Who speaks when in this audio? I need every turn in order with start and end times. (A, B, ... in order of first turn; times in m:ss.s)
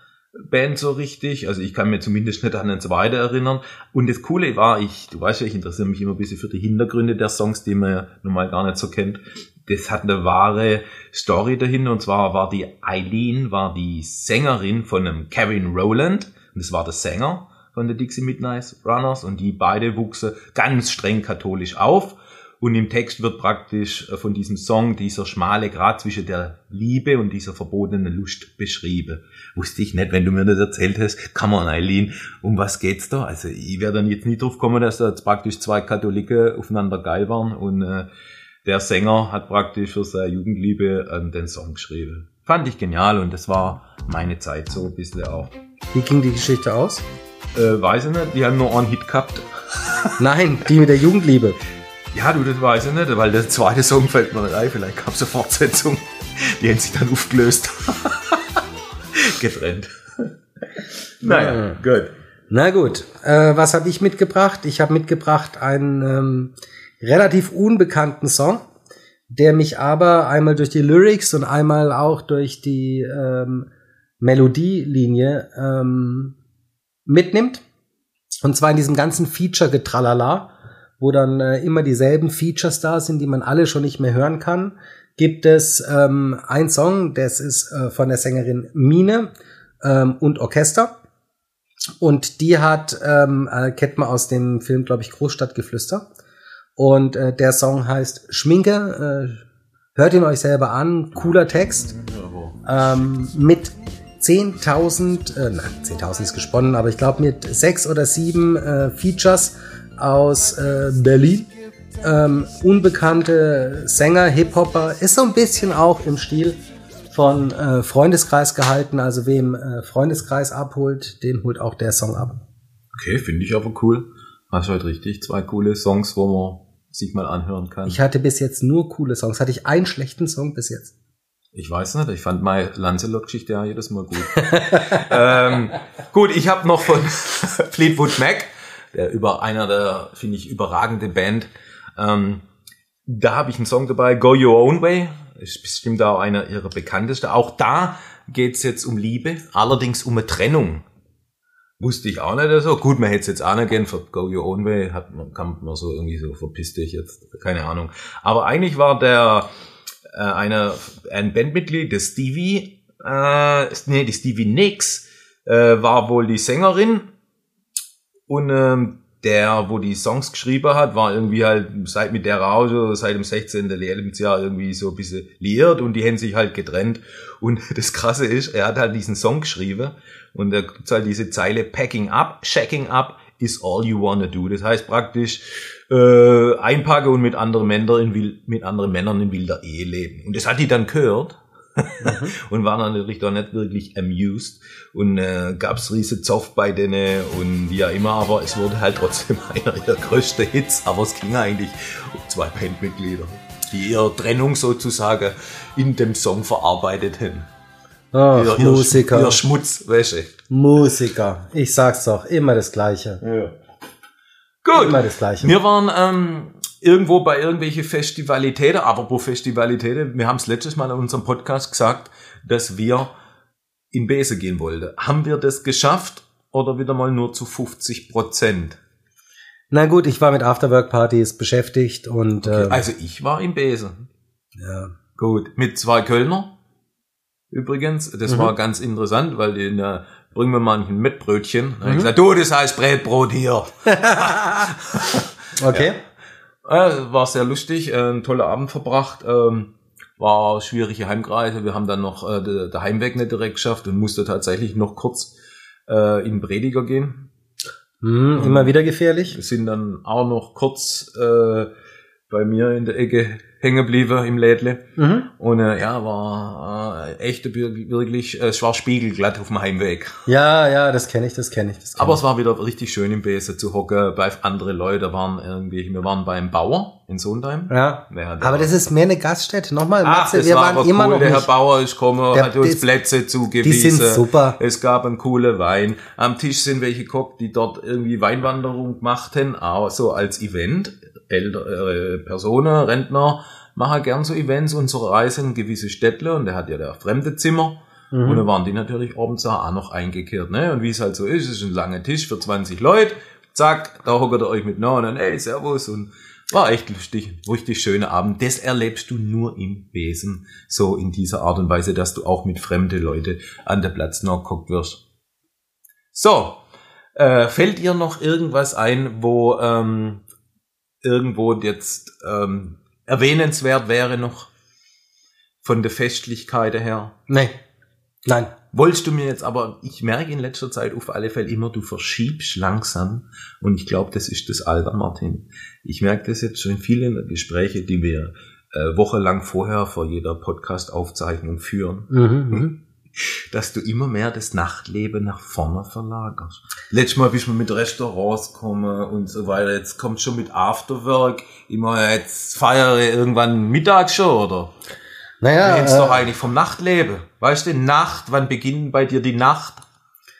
0:00.4-0:38.1 A
0:38.6-0:45.5 A
0:45.9-0:47.0 B
0:47.6-0:50.1 A
0:50.2-0:51.6 B
0:52.1-0:58.6 A
0:59.1-1:02.1 A
1:01.2-1:01.8 B
1:02.5-1:08.6 B
1:09.3-1:13.7 B
1:14.2-1:16.4 B
1:17.1-1:17.6 B
1:18.4-1:29.3 B
1:29.8-1:30.9 B
1:32.0-1:36.0 B
1:36.8-1:39.4 B
1:39.9-1:42.0 B
1:42.0-1:42.6 A
1:42.6-1:51.5 B
1:52.0-1:56.6 B
1:57.1-2:02.4 B
2:02.9-2:08.0 A
2:07.9-2:10.9 B
2:11.5-2:22.4 A
2:14.4-2:15.0 B
2:23.1-2:30.8 A
2:31.8-2:39.5 A
2:40.1-2:47.1 A
2:48.3-3:27.5 A
3:12.0-3:12.3 B
3:28.1-3:29.4 B
3:28.3-3:30.4 A
3:30.5-3:33.2 B
3:33.2-3:33.6 A
3:34.6-3:43.1 A
3:34.7-3:35.5 B
3:43.9-3:48.8 A
3:49.7-3:52.8 B
3:52.4-3:54.1 A
3:54.6-3:54.9 B
3:55.2-3:56.6 A
3:57.5-4:05.9 A
3:58.3-3:58.5 B
4:01.8-4:02.1 B
4:03.9-4:04.7 B
4:05.6-4:06.0 B
4:06.6-4:15.3 A
4:15.9-4:17.3 A
4:18.0-4:19.4 B
4:18.4-4:18.7 A
4:19.3-4:21.7 A
4:22.3-4:30.3 A
4:25.0-4:25.3 B
4:30.3-4:32.2 B
4:32.0-4:38.7 A
4:37.7-4:41.5 B
4:40.0-5:15.0 A
4:42.3-4:42.8 B
4:43.6-4:44.6 B
4:58.1-4:58.4 B
5:16.1-5:16.6 A
5:17.1-5:20.2 A
5:21.0-5:24.5 A
5:25.6-5:27.1 A
5:27.3-5:27.6 B
5:28.3-5:28.5 B
5:28.7-5:42.6 A
5:42.1-5:42.8 B
5:43.2-5:54.7 A
5:55.4-5:56.2 B
5:55.6-5:59.8 A